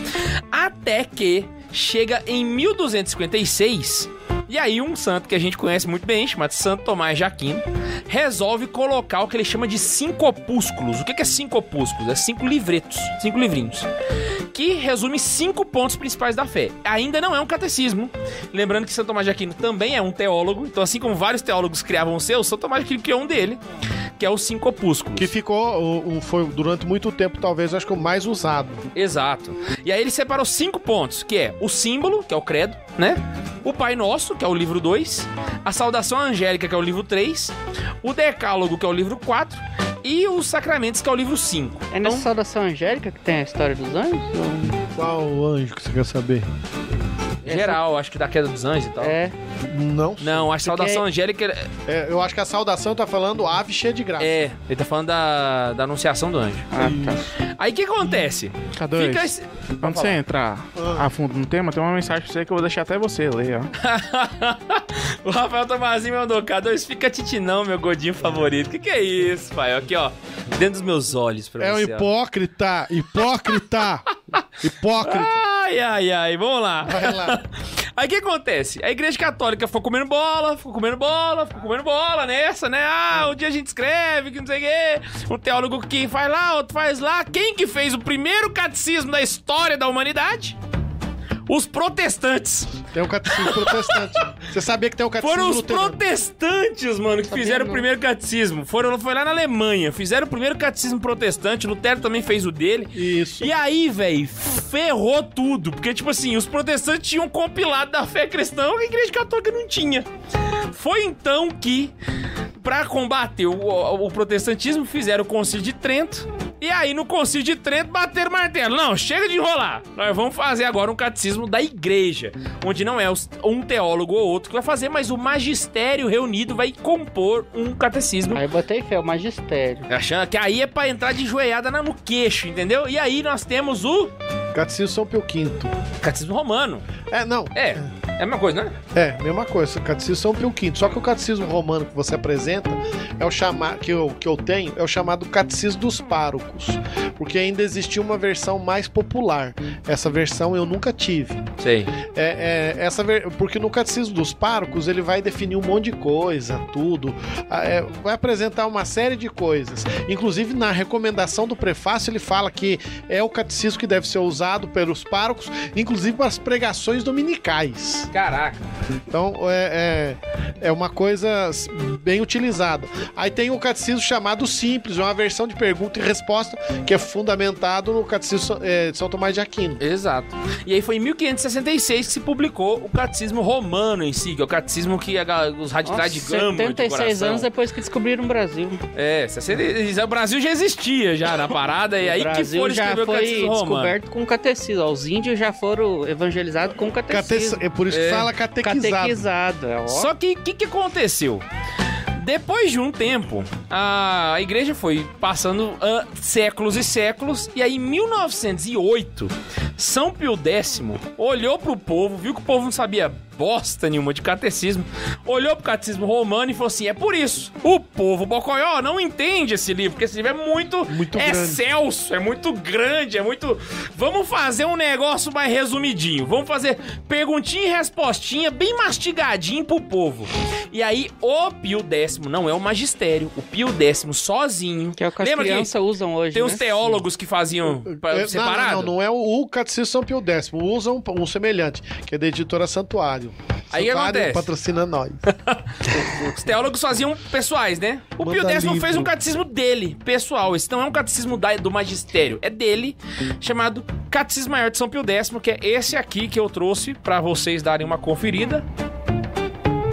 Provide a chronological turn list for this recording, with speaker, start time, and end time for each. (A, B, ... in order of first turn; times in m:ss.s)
0:00.5-0:13.9 A
0:14.5-0:23.6 A
0:24.2-0:25.3 A
0:25.2-0:28.9 B
0:29.0-0:42.2 A
0:41.9-0:44.8 C
0:45.0-0:46.5 B
0:47.4-0:47.8 C
0:47.5-0:49.2 A
0:49.0-0:49.3 C
0:49.7-0:50.5 B
0:50.2-0:51.7 A
0:50.6-0:51.0 C
0:51.9-0:54.4 B
0:54.2-0:56.7 A
0:56.7-0:57.3 C
0:56.8-0:57.2 B
0:57.6-1:00.2 A
0:58.8-1:03.7 D
1:00.8-1:01.1 B
1:03.8-1:12.1 A
1:11.6-1:14.1 B
1:14.6-1:15.4 B
1:15.0-1:30.6 A
1:16.8-1:17.4 B
1:31.5-1:34.2 A
1:32.9-1:36.0 B
1:35.2-1:50.1 A
1:37.3-1:37.9 C
1:43.0-1:43.5 B
1:50.7-1:51.9 A
1:52.6-2:08.4 A
2:08.3-2:09.9 C
2:09.9-2:14.1 A
2:14.5-2:15.7 B
2:16.0-2:16.9 A
2:17.1-2:17.8 B
2:17.6-2:18.8 A
2:18.9-2:31.4 B
2:31.6-2:31.9 A
2:32.1-2:48.1 B
2:48.1-2:48.6 A
2:49.1-2:59.8 B
2:59.8-3:07.5 A
3:05.8-3:08.8 C
3:09.0-3:13.9 A
3:12.0-3:17.6 C
3:17.1-3:19.2 B
3:17.9-3:18.3 A
3:18.6-3:20.1 C
3:19.9-3:21.4 A
3:22.2-3:55.7 A
3:40.9-3:41.6 B
3:55.0-3:56.9 C
3:56.3-3:58.9 A
3:57.9-4:05.2 B
4:03.7-4:04.5 A
4:05.3-4:18.6 A
4:08.2-4:09.1 B